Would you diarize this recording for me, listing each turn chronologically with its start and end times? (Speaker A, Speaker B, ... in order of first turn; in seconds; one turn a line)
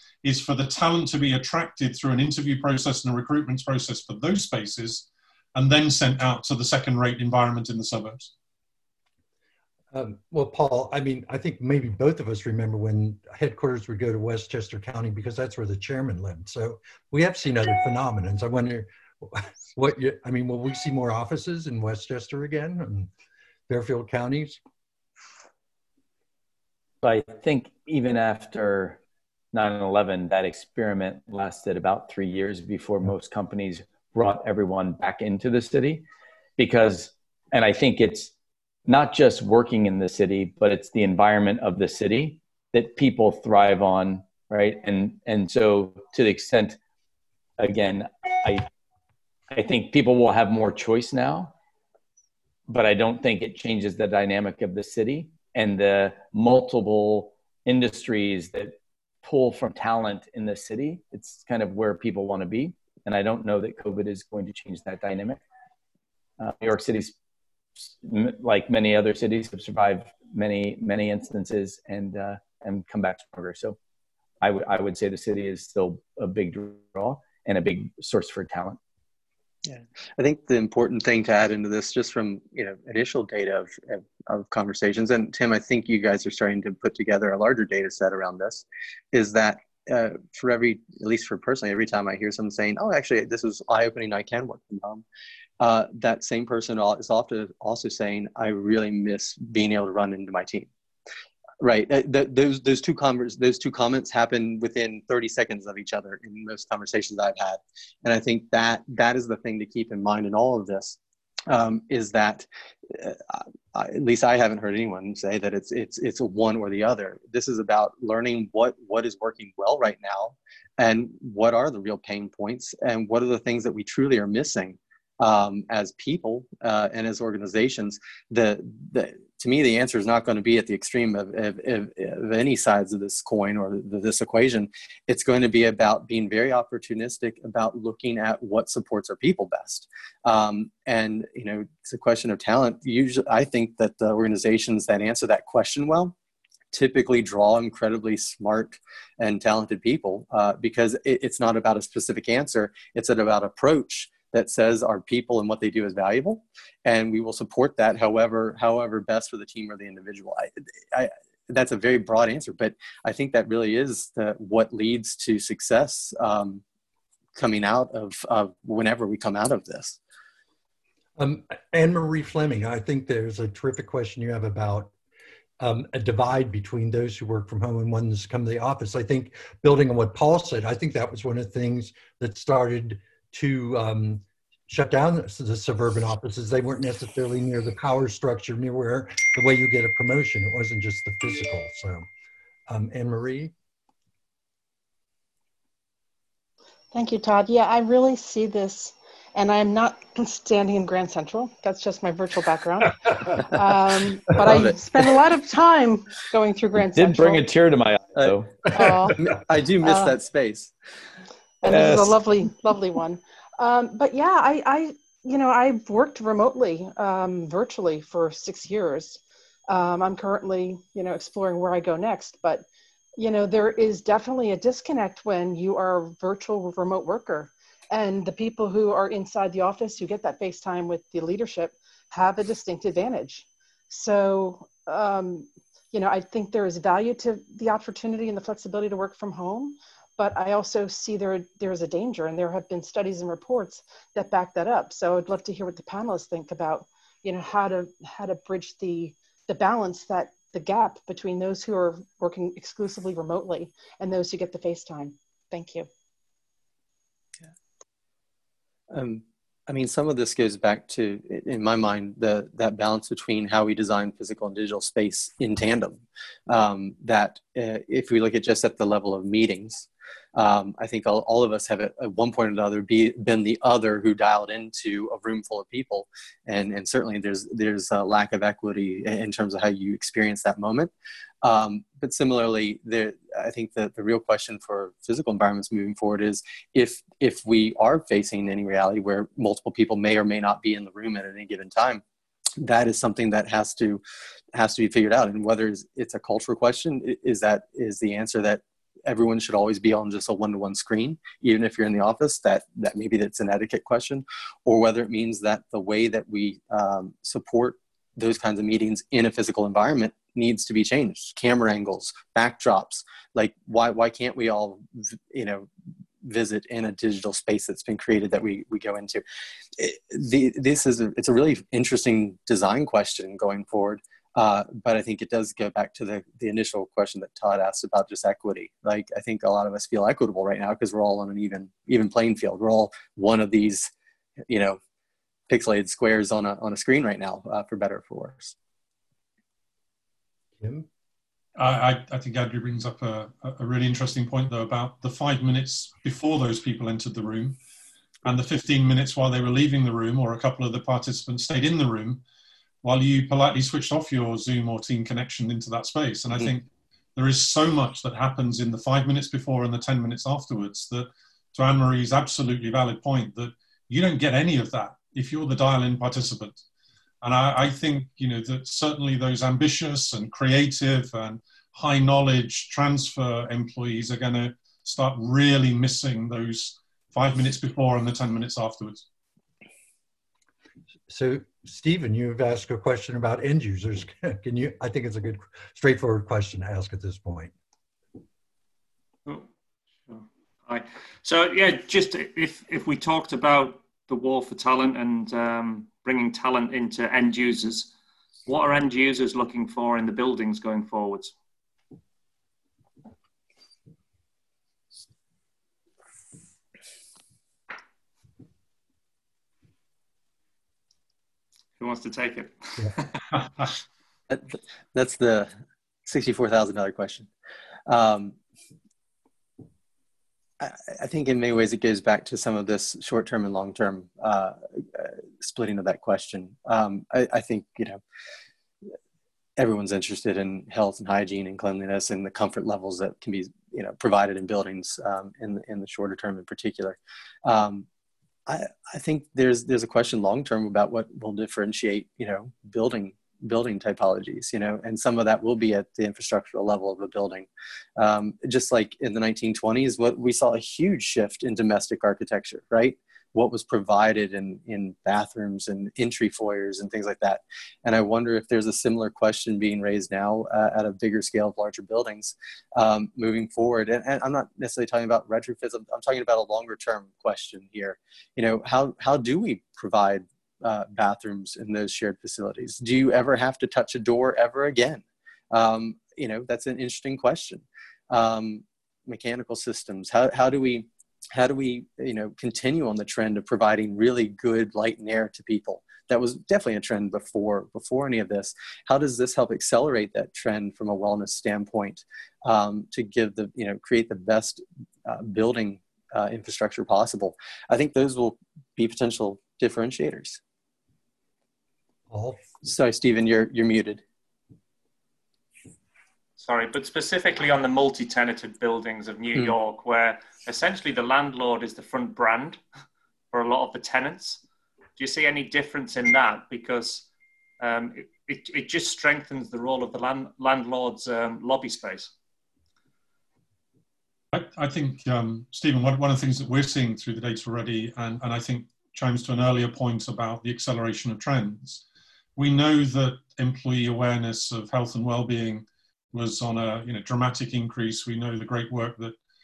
Speaker A: 0.2-8.3
Speaker B: 9.9-23.1
Speaker B: 23.7-24.6
Speaker C: 27.0-29.0
Speaker C: 29.5-36.0
Speaker C: 36.6-38.3
Speaker C: 38.9-46.8
Speaker C: 47.6-48.7
Speaker C: 49.5-51.5
Speaker C: 52.7-65.4
Speaker C: 66.4-67.2
Speaker C: 67.8-73.8
Speaker C: 74.4-78.8
Speaker D: 79.7-95.0
Speaker D: 95.6-100.7
Speaker D: 101.6-111.0
Speaker D: 111.5-146.2
Speaker D: 146.7-166.6
Speaker D: 167.4-170.0
Speaker B: 171.2-174.9
Speaker B: 175.6-192.1
Speaker B: 192.7-193.5
Speaker E: 196.9-207.4
Speaker D: 204.4-204.8
Speaker C: 206.9-208.7
Speaker D: 208.2-210.7
Speaker E: 208.7-209.2
Speaker E: 209.8-210.2
Speaker E: 211.6-222.7
Speaker C: 211.7-212.1
Speaker E: 223.2-255.9
Speaker D: 258.9-280.9
Speaker D: 281.4-292.0
Speaker D: 292.6-294.0
Speaker D: 294.5-315.7
Speaker D: 316.2-319.2
Speaker D: 319.8-333.9
Speaker D: 334.5-334.8
Speaker D: 335.5-338.6
Speaker B: 340.6-340.9
Speaker A: 341.6-347.6
Speaker A: 348.2-352.2
Speaker A: 352.8-366.6
Speaker A: 367.2-379.1
Speaker B: 381.1-387.5
Speaker F: 390.1-397.9
Speaker F: 398.5-401.3
Speaker F: 411.8-413.2
Speaker D: 414.3-415.5
Speaker D: 416.1-417.3
Speaker D: 417.9-418.4
Speaker D: 420.6-428.0
Speaker D: 429.6-437.9
Speaker D: 438.5-500.4
Speaker B: 502.1-502.4
Speaker D: 502.6-504.0
Speaker F: 506.4-512.6
Speaker F: 513.3-514.4
Speaker F: 515.0-517.1
Speaker F: 517.6-522.1
Speaker A: 524.3-531.8
Speaker A: 532.4-539.2